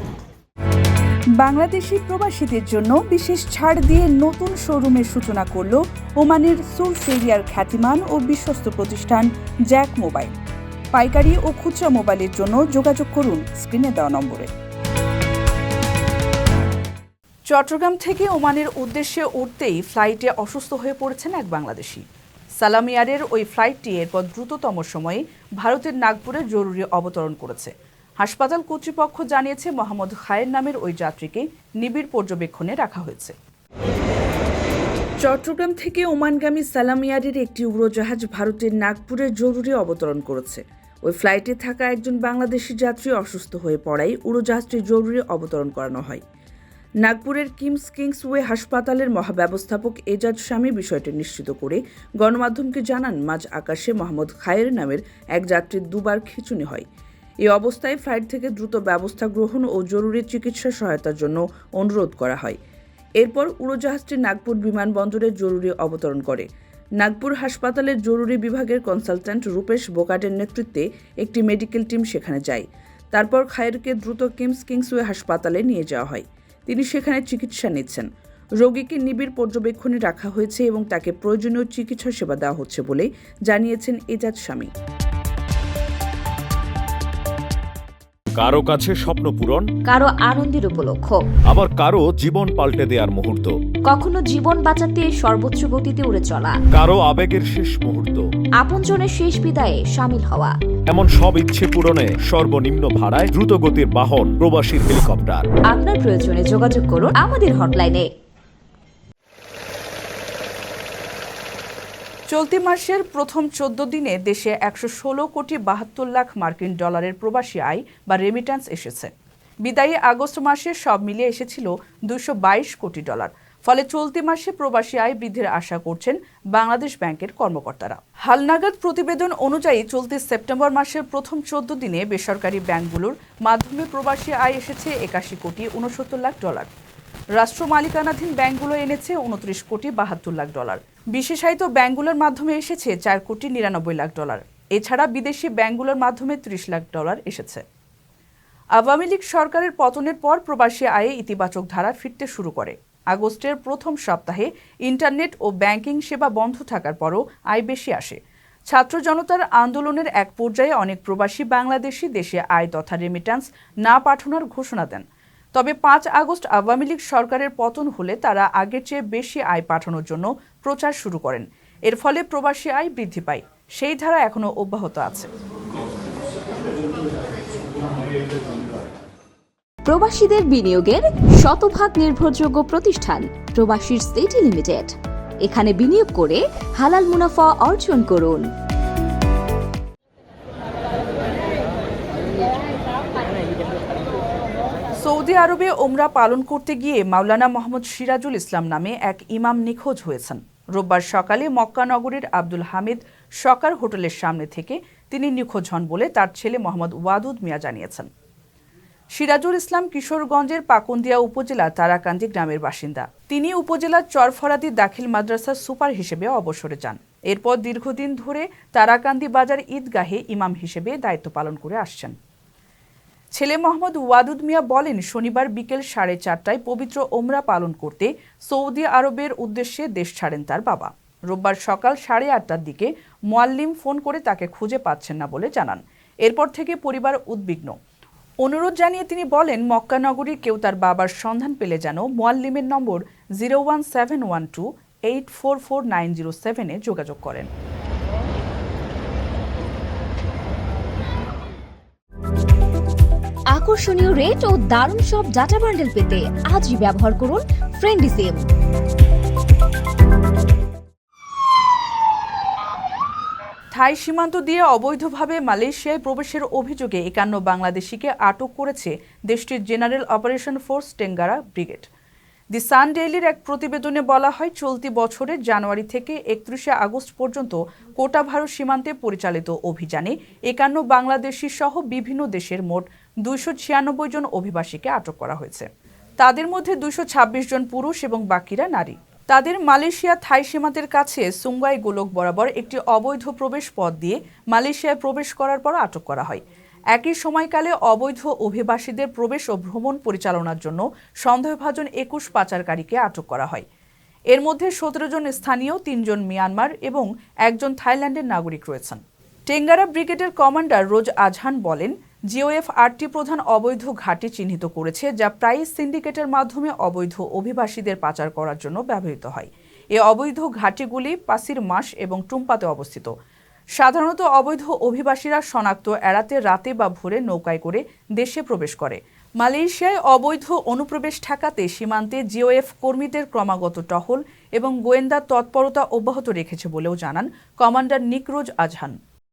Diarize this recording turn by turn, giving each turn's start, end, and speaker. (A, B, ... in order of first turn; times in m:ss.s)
0:01.4-0:10.4 A
0:10.9-0:14.5 A
0:17.5-0:22.0 A
0:22.6-0:33.3 A
0:35.2-0:46.2 A
0:47.0-0:56.9 A
0:57.4-1:02.6 A
1:03.2-1:06.5 A
1:07.0-1:18.1 A
1:18.6-1:24.7 A
1:28.4-1:29.7 B
1:29.8-1:31.2 C
1:31.5-1:33.5 B
1:33.8-1:36.6 C
1:36.7-1:38.2 B
1:38.6-1:40.5 C
1:40.9-1:45.5 B
1:45.7-1:48.1 C
1:52.3-1:59.1 A
1:59.6-2:16.7 A
2:17.4-2:27.6 A
2:28.8-2:55.3 A
2:59.8-3:08.5 C
3:15.0-3:28.1 A
3:29.1-3:42.1 A
3:43.3-3:57.8 A
3:58.4-4:07.5 A
4:13.5-4:18.4 C
4:23.7-4:31.9 A
4:32.5-4:45.7 A
4:46.2-5:03.6 A
5:04.3-5:23.1 A
5:23.8-5:39.0 A